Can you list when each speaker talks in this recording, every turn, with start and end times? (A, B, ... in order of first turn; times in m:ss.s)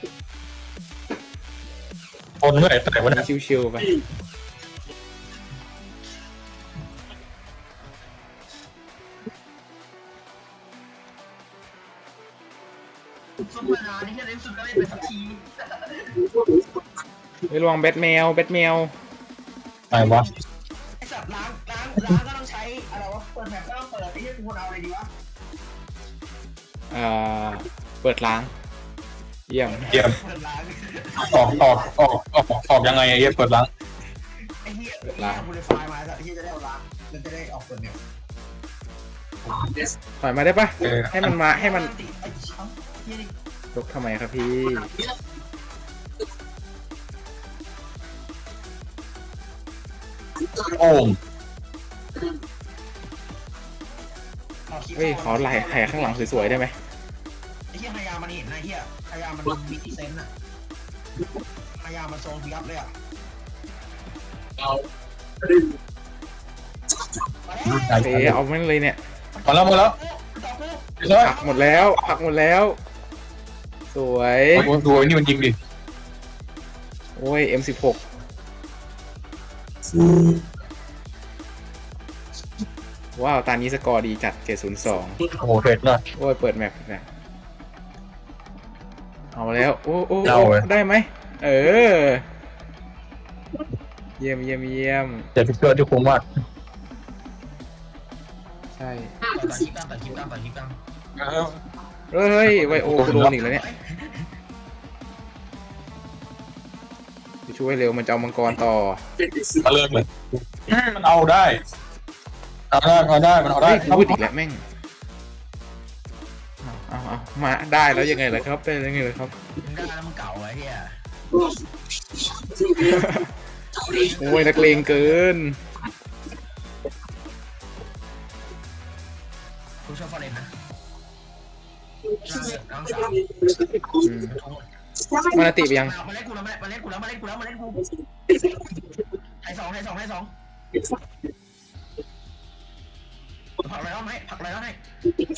0:02.4-0:03.2 A
0:03.0-0:04.0 B
0:13.4-0:16.4 C
0:17.5-0:18.9 B
0:19.9-0:20.3 A
0:21.0-0:25.1 C
0:26.9-0:28.5 B
0:29.5-0:30.0 B
0:29.6-0:31.8 C
0:29.9-0:30.2 A
0:31.2-0:33.7 A
0:34.6-0:38.0 C
0:35.1-0:35.5 B
0:40.2-0:41.9 B
0:40.8-0:41.3 A
0:41.1-0:43.3 C
0:43.7-0:44.9 B
0:50.5-0:51.2 A
0:54.7-0:56.6 C
0:55.0-0:56.7 B
0:57.7-1:00.3 C
1:01.8-1:02.9 C
1:04.6-1:04.9 A
1:07.5-1:08.2 C
1:07.7-1:08.4 A
1:08.0-1:09.0 B
1:09.4-1:12.1 C
1:09.4-1:10.0 A
1:11.0-1:11.4 A
1:11.2-1:12.8 B
1:13.9-1:14.7 B
1:14.6-1:15.6 A
1:17.2-1:18.0 B
1:20.0-1:20.4 A
1:23.2-1:25.3 B
1:25.2-1:26.0 A
1:26.2-1:27.0 B
1:29.3-1:32.2 B
1:30.2-1:30.7 A
1:34.2-1:35.3 B
1:35.4-1:36.2 A
1:38.7-1:39.2 B
1:39.2-1:40.8 C
1:41.2-1:41.6 A
1:42.1-1:43.6 B
1:42.4-1:43.3 A
1:43.0-1:44.1 C
1:47.5-1:49.0 B
1:49.3-1:51.6 A
1:52.7-1:54.3 A
1:53.6-1:54.6 B
1:56.6-1:59.3 B
1:59.6-2:01.0 C
2:02.7-2:03.3 B
2:03.8-2:05.2 C
2:03.9-2:05.6 B
2:09.8-2:10.5 C
2:12.2-2:14.6 C
2:13.9-2:14.4 B
2:15.2-2:16.0 B
2:15.7-2:17.9 C
2:19.4-2:20.3 C
2:23.6-2:24.8 C